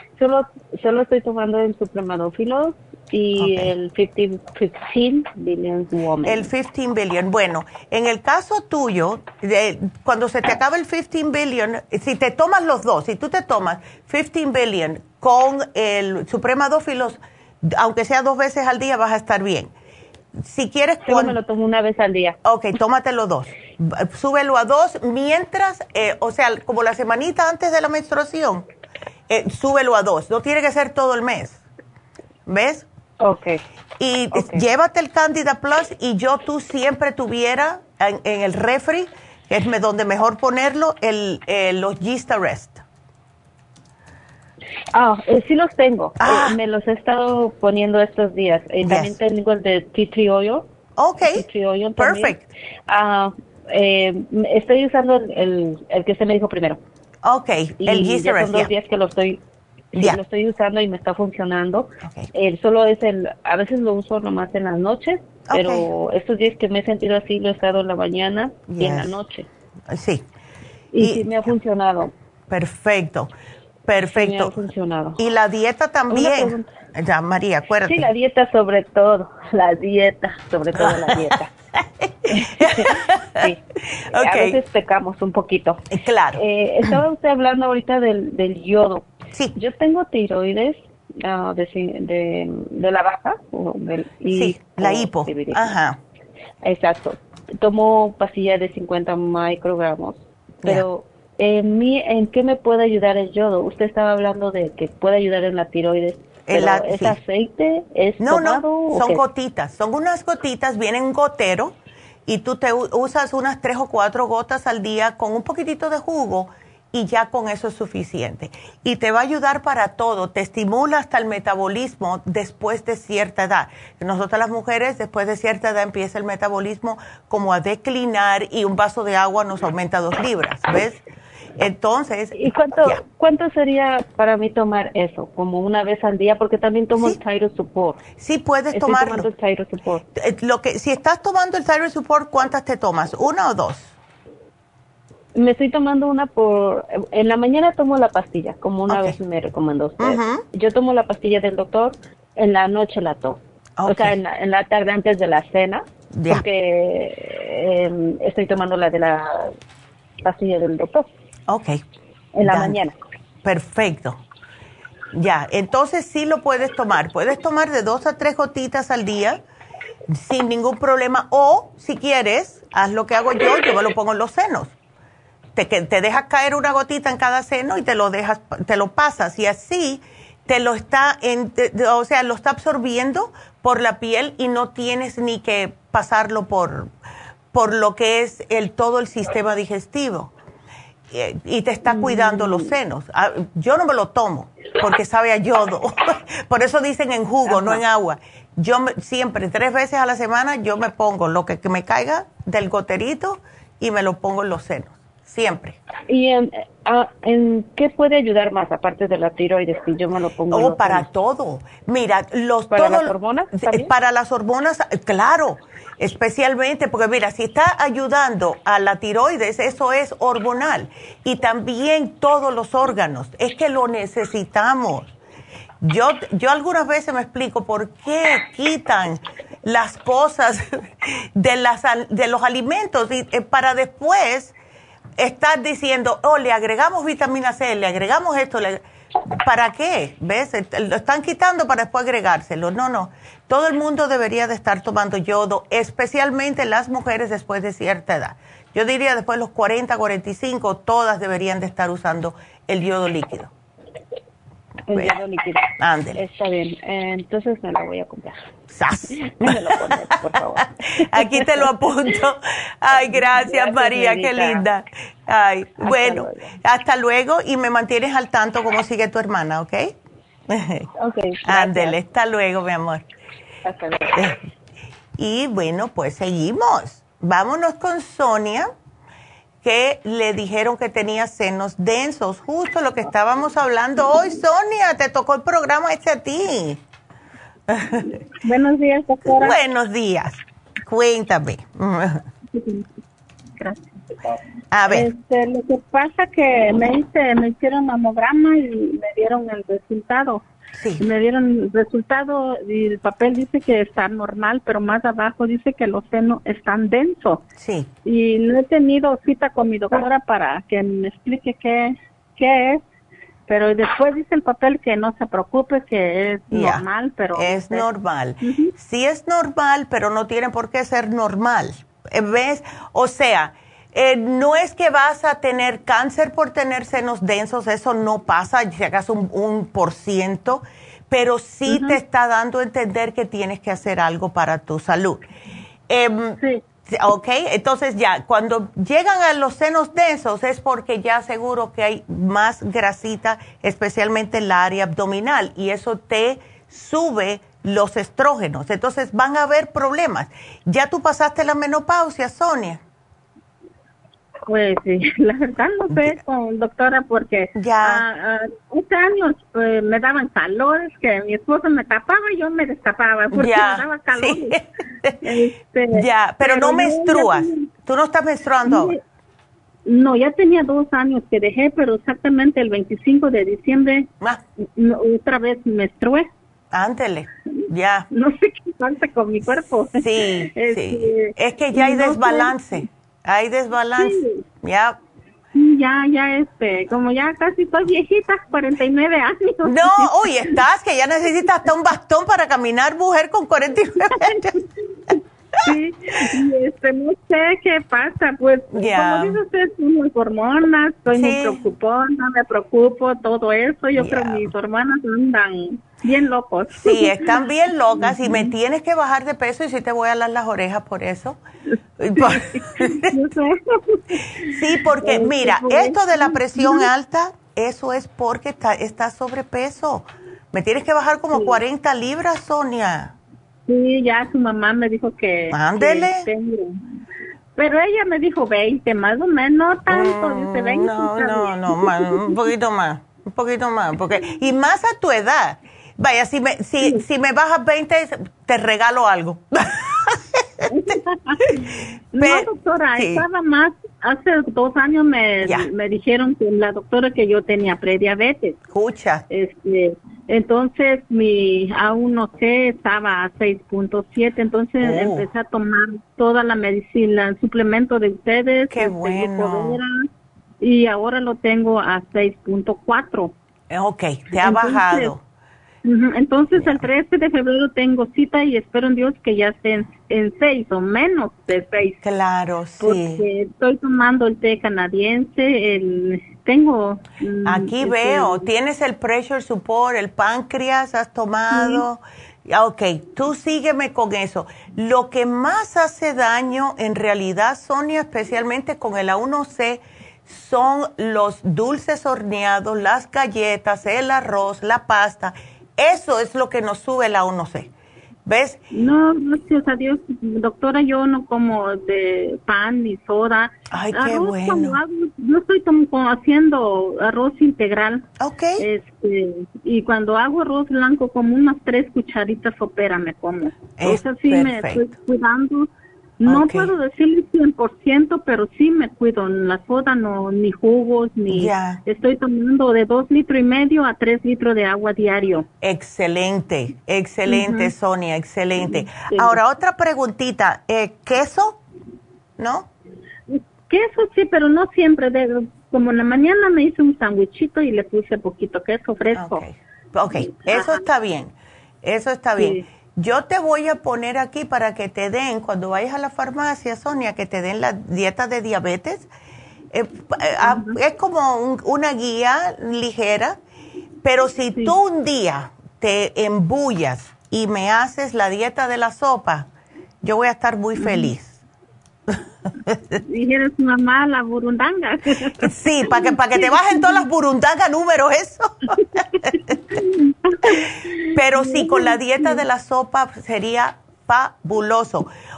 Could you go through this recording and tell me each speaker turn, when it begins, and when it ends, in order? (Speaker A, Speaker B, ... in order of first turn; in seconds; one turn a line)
Speaker A: 0.2-6.5
Speaker B: 3.4-3.7
Speaker B: 6.2-19.7
Speaker B: 20.4-21.4
Speaker A: 21.0-22.4
Speaker B: 22.4-28.6
Speaker B: 29.3-31.6
Speaker B: 32.5-32.8
Speaker A: 33.2-33.6
Speaker B: 34.0-42.8
Speaker A: 34.3-34.6
Speaker A: 44.9-50.7
Speaker B: 46.2-46.6
Speaker B: 48.8-49.1
Speaker B: 51.0-51.4
Speaker A: 51.2-52.4
Speaker B: 52.0-52.5
Speaker A: 52.9-56.8
Speaker B: 57.2-58.7
Speaker A: 57.8-59.4
Speaker A: 59.9-69.5
Speaker B: 65.5-65.9
Speaker B: 68.7-69.2
Speaker B: 69.9-70.2
Speaker A: 70.9-72.1
Speaker B: 71.0-71.5
Speaker B: 72.5-73.3
Speaker B: 73.9-74.5
Speaker A: 74.1-75.2
Speaker B: 75.2-78.1
Speaker A: 76.1-76.7
Speaker A: 77.8-81.5
Speaker B: 80.7-81.4
Speaker B: 82.0-83.5
Speaker A: 82.3-95.8
Speaker B: 84.1-84.6
Speaker B: 85.9-87.0
Speaker B: 94.3-96.0
Speaker A: 96.6-109.2
Speaker B: 106.5-107.2
Speaker B: 108.2-111.7
Speaker B: 112.3-131.0
Speaker B: 131.6-133.0
Speaker A: 132.4-138.0
Speaker B: 138.2-139.3
Speaker A: 138.7-140.1
Speaker B: 140.2-143.9
Speaker A: 145.3-159.5
Speaker B: 148.9-149.2
Speaker B: 150.0-150.4
Speaker B: 153.8-154.2
Speaker B: 156.1-156.4
Speaker A: 160.2-161.1
Speaker B: 161.5-161.8
Speaker A: 162.3-162.9
Speaker B: 162.4-162.8
Speaker B: 163.4-164.2
Speaker B: 165.1-169.4
Speaker B: 170.1-174.7
Speaker B: 175.5-186.9
Speaker B: 187.5-190.3
Speaker B: 191.1-205.8
Speaker A: 191.8-192.8
Speaker A: 197.4-197.8
Speaker A: 206.1-211.1
Speaker B: 210.5-225.1
Speaker A: 212.7-213.9
Speaker B: 225.8-234.5
Speaker B: 235.2-238.8
Speaker B: 239.4-253.5
Speaker A: 254.9-258.4
Speaker B: 254.9-255.2
Speaker B: 255.8-256.2
Speaker B: 258.7-269.9
Speaker A: 259.1-262.1
Speaker A: 262.9-264.7
Speaker A: 265.8-266.5
Speaker B: 270.5-270.9
Speaker A: 271.0-272.0
Speaker B: 271.4-273.0
Speaker A: 273.6-274.2
Speaker B: 274.1-274.4
Speaker B: 275.2-278.7
Speaker B: 279.6-286.8
Speaker B: 287.7-288.2
Speaker C: 288.4-289.6
Speaker B: 289.3-292.2
Speaker C: 292.5-292.9
Speaker C: 293.6-294.3
Speaker B: 294.7-295.1
Speaker C: 294.9-300.4
Speaker B: 300.8-301.0
Speaker C: 301.0-307.4
Speaker B: 307.6-307.9
Speaker C: 308.0-312.8
Speaker C: 313.5-317.8
Speaker B: 316.5-316.8
Speaker B: 317.3-335.3
Speaker C: 318.4-318.7
Speaker C: 331.7-332.0
Speaker B: 335.9-336.4
Speaker B: 336.9-352.8
Speaker C: 354.5-364.6
Speaker B: 357.6-358.0
Speaker B: 363.3-365.1
Speaker C: 365.2-367.7
Speaker B: 365.9-368.9
Speaker C: 368.6-369.0
Speaker C: 369.8-374.1
Speaker C: 374.8-376.3
Speaker B: 376.7-378.1
Speaker C: 378.1-382.6
Speaker B: 380.0-385.0
Speaker C: 384.0-384.4
Speaker C: 385.5-390.6
Speaker B: 389.6-394.5
Speaker C: 394.0-394.5
Speaker C: 395.6-408.5
Speaker B: 398.7-399.4
Speaker B: 401.1-401.6
Speaker B: 404.0-404.4
Speaker B: 406.8-411.4
Speaker B: 412.0-413.1
Speaker C: 412.1-416.9
Speaker B: 414.5-423.1
Speaker C: 421.3-421.6
Speaker C: 423.7-426.8
Speaker B: 425.5-426.3
Speaker C: 427.6-432.4
Speaker B: 429.9-440.2
Speaker C: 440.7-441.6
Speaker C: 442.1-448.6
Speaker B: 442.2-443.2
Speaker B: 445.4-445.7
Speaker B: 448.7-449.2
Speaker C: 449.3-459.9
Speaker B: 454.8-455.3
Speaker B: 458.7-459.8
Speaker C: 460.6-463.3
Speaker B: 463.7-465.2
Speaker C: 464.4-465.1
Speaker C: 465.8-472.0
Speaker B: 466.6-466.8
Speaker B: 472.0-473.2
Speaker C: 472.8-478.5
Speaker B: 477.4-497.7
Speaker C: 481.5-481.8
Speaker B: 498.2-498.6
Speaker C: 498.7-508.1
Speaker B: 503.7-504.8
Speaker B: 508.2-508.6
Speaker C: 508.6-515.7
Speaker B: 513.8-514.9
Speaker C: 516.2-525.5
Speaker B: 516.2-516.7
Speaker B: 521.3-521.8
Speaker B: 525.6-531.6
Speaker C: 527.3-527.7
Speaker C: 528.6-529.4
Speaker B: 532.4-532.7
Speaker C: 533.3-539.4
Speaker B: 539.1-549.1
Speaker C: 540.3-540.8
Speaker C: 542.4-542.6
Speaker B: 549.7-553.4
Speaker C: 550.4-550.8
Speaker B: 554.0-559.5
Speaker B: 560.0-561.4
Speaker C: 560.8-561.1
Speaker B: 562.1-563.0
Speaker C: 563.1-567.0
Speaker B: 565.4-569.0
Speaker C: 569.7-572.4
Speaker B: 570.5-575.1